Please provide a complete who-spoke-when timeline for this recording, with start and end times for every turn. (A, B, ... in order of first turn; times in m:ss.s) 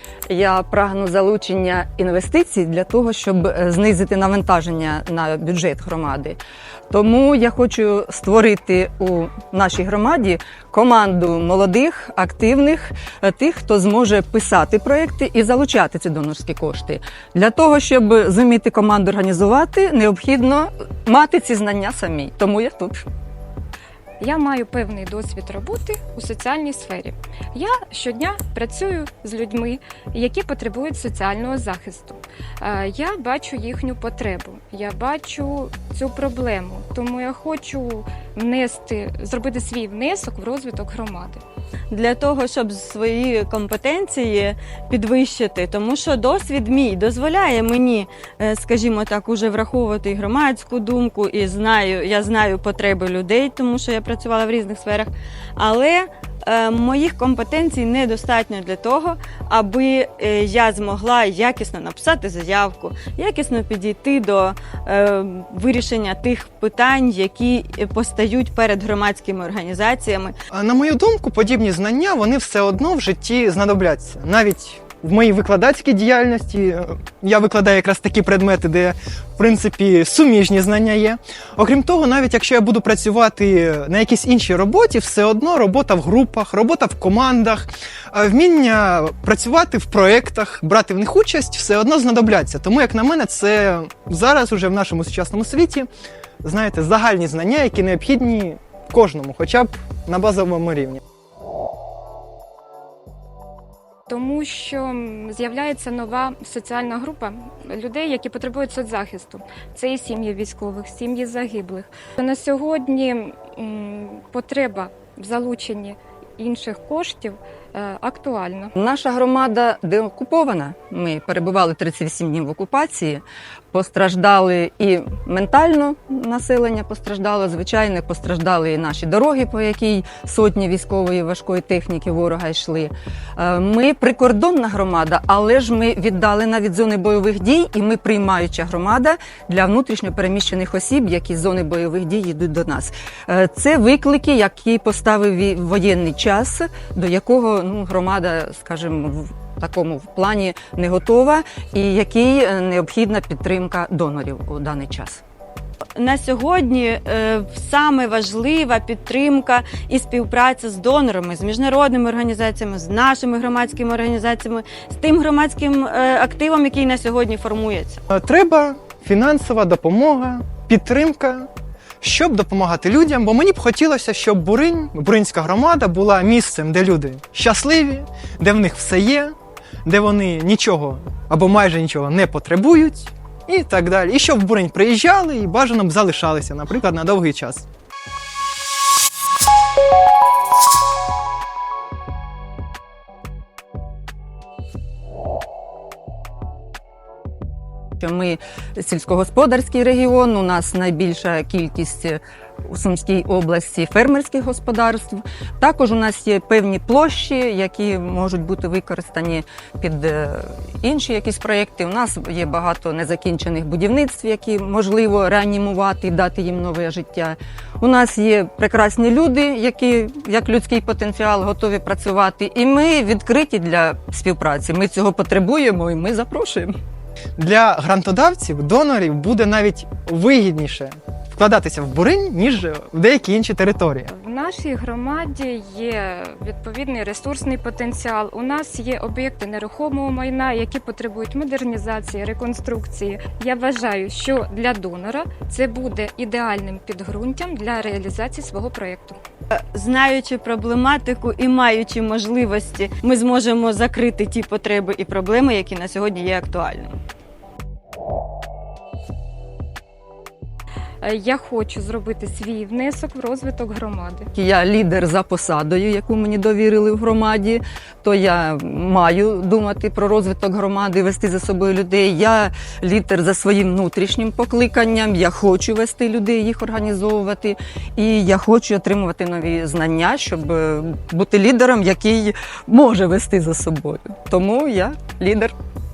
0:00.3-0:06.4 A
0:06.9-0:23.0 A
0:24.2-0:41.4 B
0:41.9-1:10.3 C
1:10.5-1:35.9 D
1:36.4-1:41.0 D
1:44.1-1:58.7 B
1:58.8-2:35.2 A
2:36.0-2:48.0 C
2:48.1-2:51.5 D
2:52.0-3:07.6 D
3:18.0-3:46.7 A
3:47.4-3:54.1 D
3:54.1-4:09.2 B
4:09.5-4:17.0 C
4:21.0-4:24.3 B
4:24.3-4:45.5 A